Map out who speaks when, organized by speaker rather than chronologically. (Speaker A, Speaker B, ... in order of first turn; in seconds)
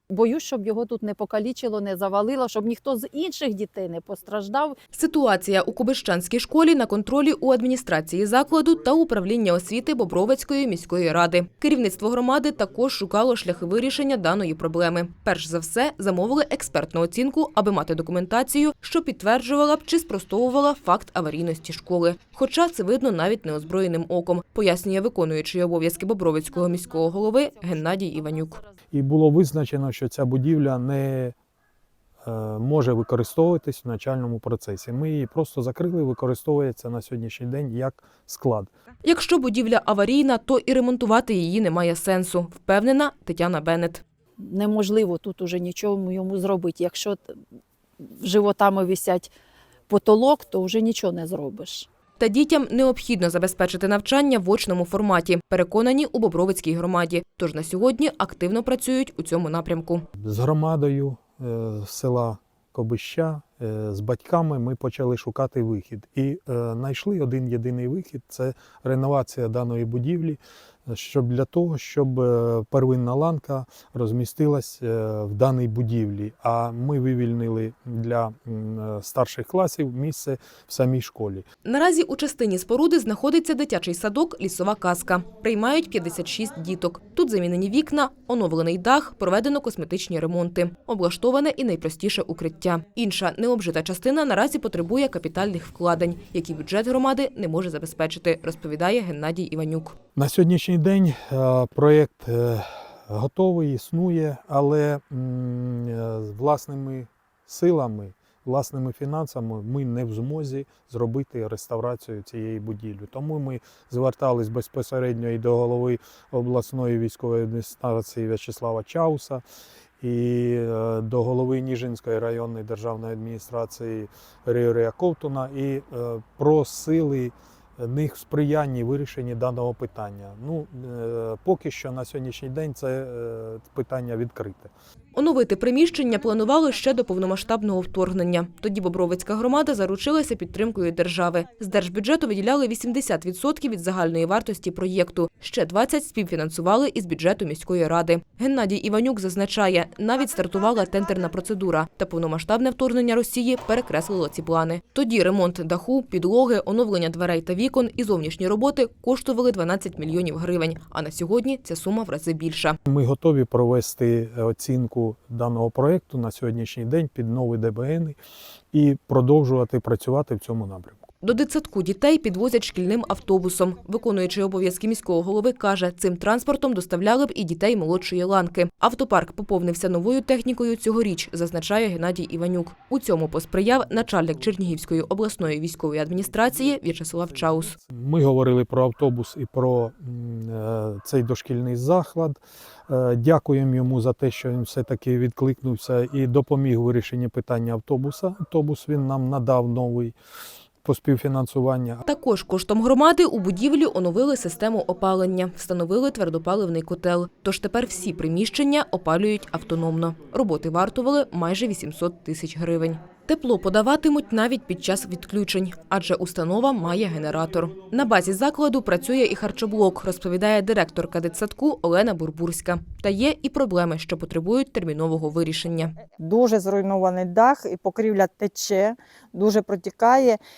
Speaker A: 0.1-4.8, 26.6-28.8, 44.4-47.4, 48.0-49.3, 49.9-51.9
Speaker B: 4.9-28.6, 39.0-44.0, 52.2-60.1, 81.7-100.0, 135.1-162.8, 171.2-187.8, 202.1-225.9
Speaker C: 28.9-31.3, 32.2-38.7, 60.2-81.5, 100.2-119.4, 120.0-134.7, 162.9-168.2, 168.7-171.0, 186.8-200.1, 200.8-202.0
Speaker D: 226.2-230.4